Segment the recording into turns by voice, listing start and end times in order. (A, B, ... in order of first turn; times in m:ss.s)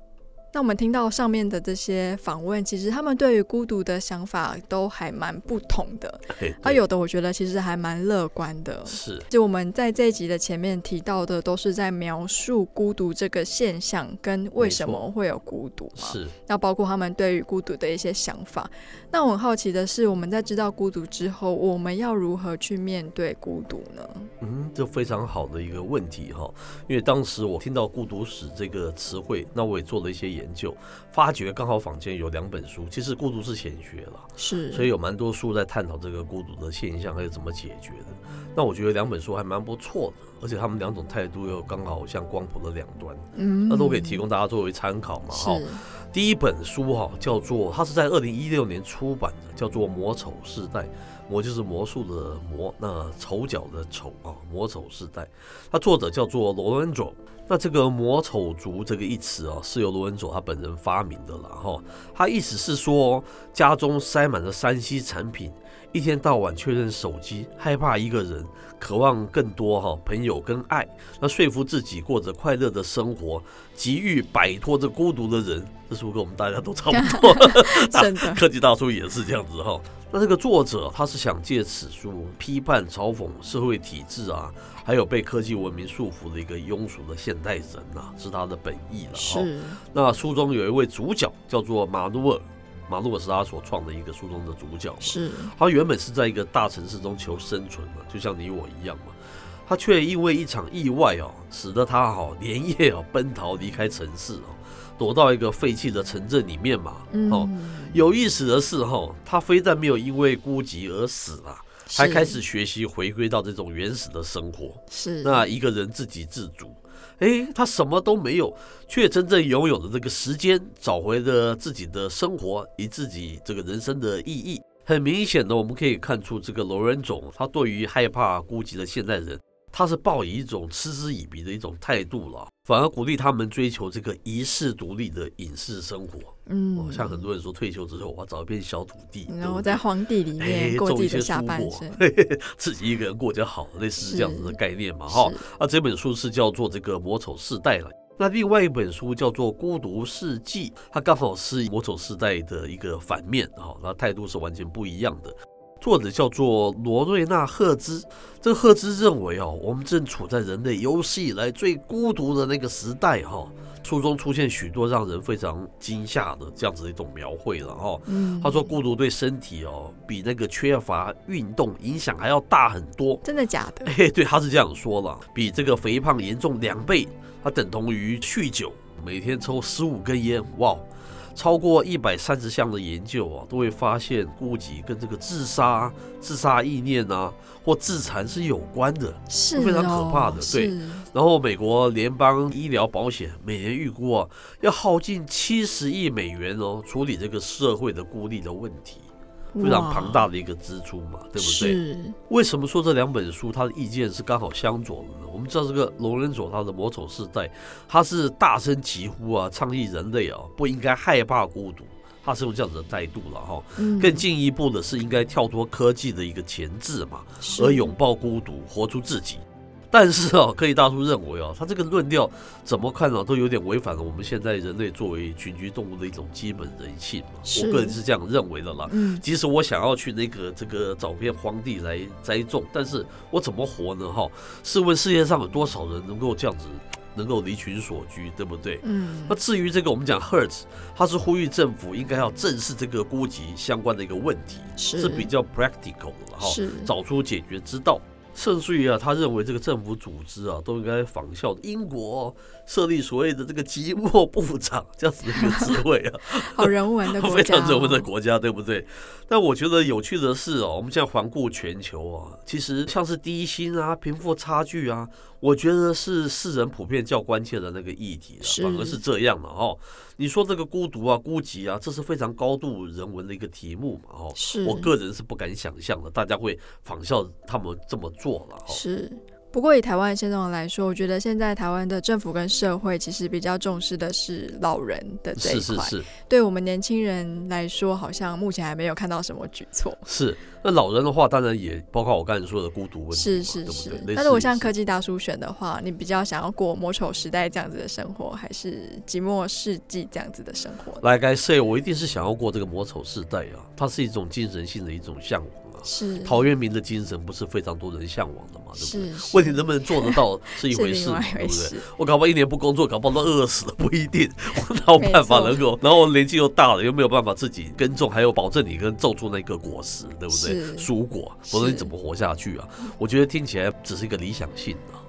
0:00.5-0:24.3 A
0:06.4-0:06.8 B
0:08.9-0:09.3 B
0:14.6-0:15.0 B
0:16.0-0:16.3 B
0:24.4-1:39.2 B
0:34.4-0:34.9 A
0:43.4-0:44.2 A
0:45.3-0:45.8 A
1:16.9-1:18.4 A
1:29.2-1:29.8 A
1:35.0-1:35.5 A
1:39.7-2:19.8 B
1:47.1-1:48.0 A
1:51.9-1:52.4 A
1:54.9-1:55.4 A
2:16.5-2:17.3 A
2:19.3-2:22.0 A
2:20.4-2:53.2 B
2:24.0-2:25.4 A
2:48.1-2:48.7 A
2:53.2-2:53.9 A
2:53.8-3:19.1 B
3:09.3-3:11.0 A
3:19.6-3:20.3 A
3:19.6-4:38.8 B
3:21.4-3:22.2 A
3:33.8-3:34.2 A
3:37.4-3:37.9 A
3:47.5-3:48.0 A
3:48.9-3:49.2 A
3:58.8-3:59.4 A
4:04.8-4:05.3 A
4:06.4-4:06.9 A
4:16.3-4:18.1 A
4:28.4-4:29.0 A
4:34.4-4:34.9 A
4:38.7-4:50.0 A
4:45.4-4:46.1 B
4:50.1-4:54.7 B
4:53.1-5:01.0 A
5:01.0-5:25.0 B
5:05.8-5:06.4 A
5:08.8-5:11.8 A
5:15.0-5:15.7 A
5:20.3-5:20.9 A
5:21.5-5:21.9 A